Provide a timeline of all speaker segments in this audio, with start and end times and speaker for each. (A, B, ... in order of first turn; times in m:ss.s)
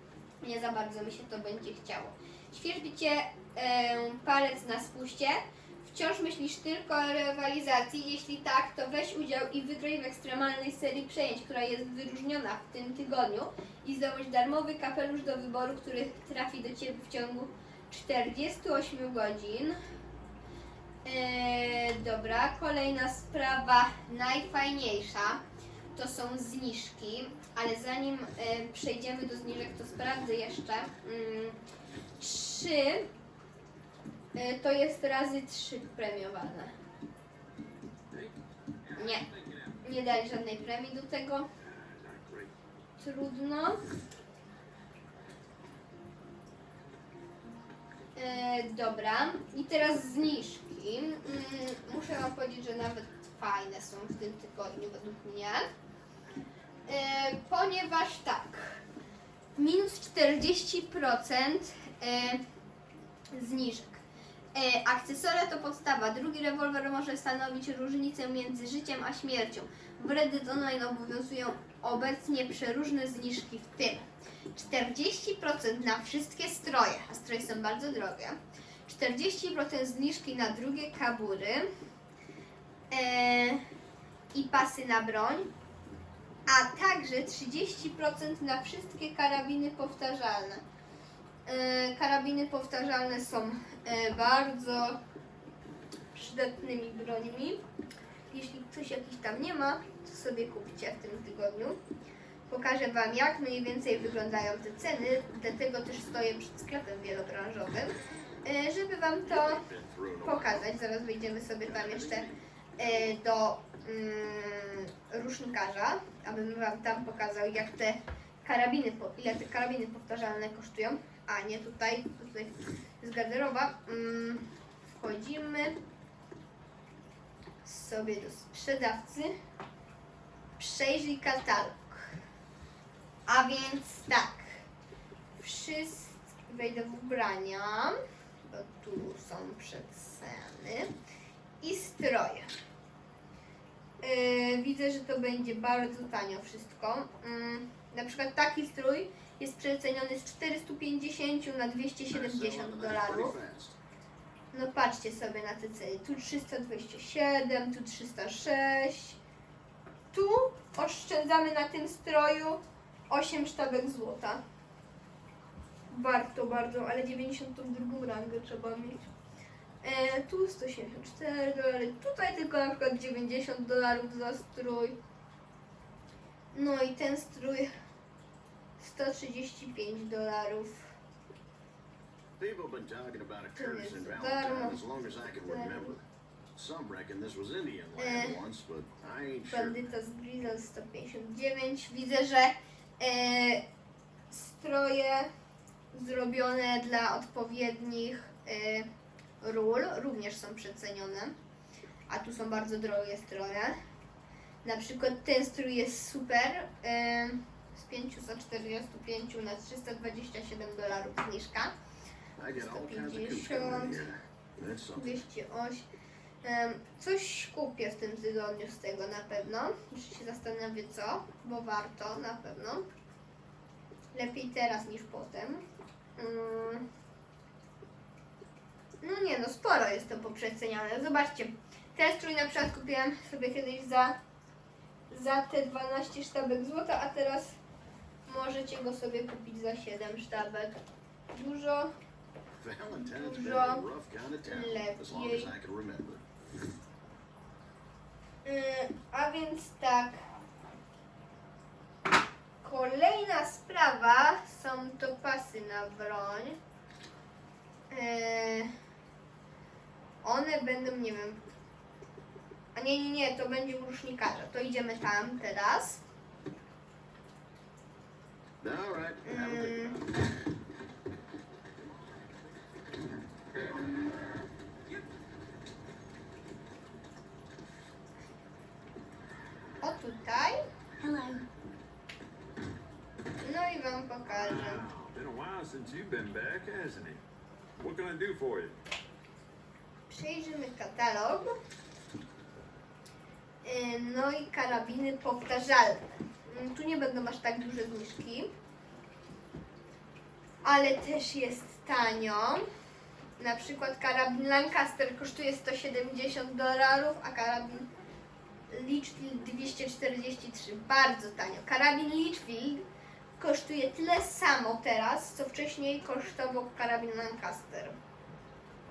0:00.4-0:19.8 A
0:21.0-0:25.4 A
0:26.0-0:31.6 A
0:32.2-0:33.1 A
0:34.4-0:36.7 A
0:38.1-0:39.8 B
0:39.0-0:39.2 A
0:39.8-0:41.5 A
0:41.6-0:42.5 B
0:43.0-0:43.8 A
0:48.2-0:55.6 A
0:56.9-0:58.8 A
0:59.6-1:02.4 A
1:03.3-1:04.0 A
1:04.5-1:21.7 A
1:22.9-1:23.6 A
1:24.3-1:25.5 A
1:26.5-1:30.6 A
1:31.5-1:35.0 A
1:36.1-1:37.6 A
1:38.3-1:41.8 A
1:42.5-1:49.6 A
1:49.3-1:50.8 C
1:50.2-1:52.3 A
1:51.6-1:52.4 C
1:52.8-2:05.8 A
2:07.6-2:09.3 A
2:10.6-2:12.1 A
2:13.3-2:14.5 A
2:15.4-2:20.9 A
2:21.6-2:22.5 A
2:24.0-2:33.4 A
2:32.1-2:33.8 C
2:34.5-2:39.2 A
2:40.1-2:44.4 A
2:45.9-2:49.1 A
2:49.8-2:55.0 A
2:56.5-2:57.7 A
2:58.8-3:00.9 A
3:02.4-3:09.9 C
3:03.6-3:06.0 A
3:08.0-3:08.4 A
3:09.5-3:13.6 A
3:14.3-3:15.3 A
3:15.9-3:18.9 A
3:19.4-3:21.3 A
3:22.1-3:23.8 A
3:24.6-3:31.7 A
3:32.4-3:35.2 C
3:32.5-3:34.0 A
3:35.0-3:35.9 A
3:36.4-3:42.8 A
3:44.1-3:45.6 A
3:46.2-3:46.8 A
3:49.0-3:54.2 A
3:55.1-3:57.6 A
3:58.3-4:00.8 A
4:01.3-4:01.9 A
4:02.6-4:06.2 C
4:03.0-4:03.8 A
4:04.4-4:05.5 A
4:08.4-4:10.1 A
4:12.6-4:16.6 A
4:17.9-4:18.7 A
4:20.2-4:21.4 A
4:22.8-4:26.0 A
4:28.6-4:30.1 C
4:29.2-4:30.0 A
4:39.8-4:41.4 A
4:43.4-4:44.8 A
4:44.3-4:47.2 B
4:47.8-4:48.8 B
4:50.1-4:51.6 A
4:53.6-4:58.5 A
5:00.6-5:02.6 A
5:03.4-5:07.9 A
5:08.7-5:12.8 A
5:13.4-5:18.0 A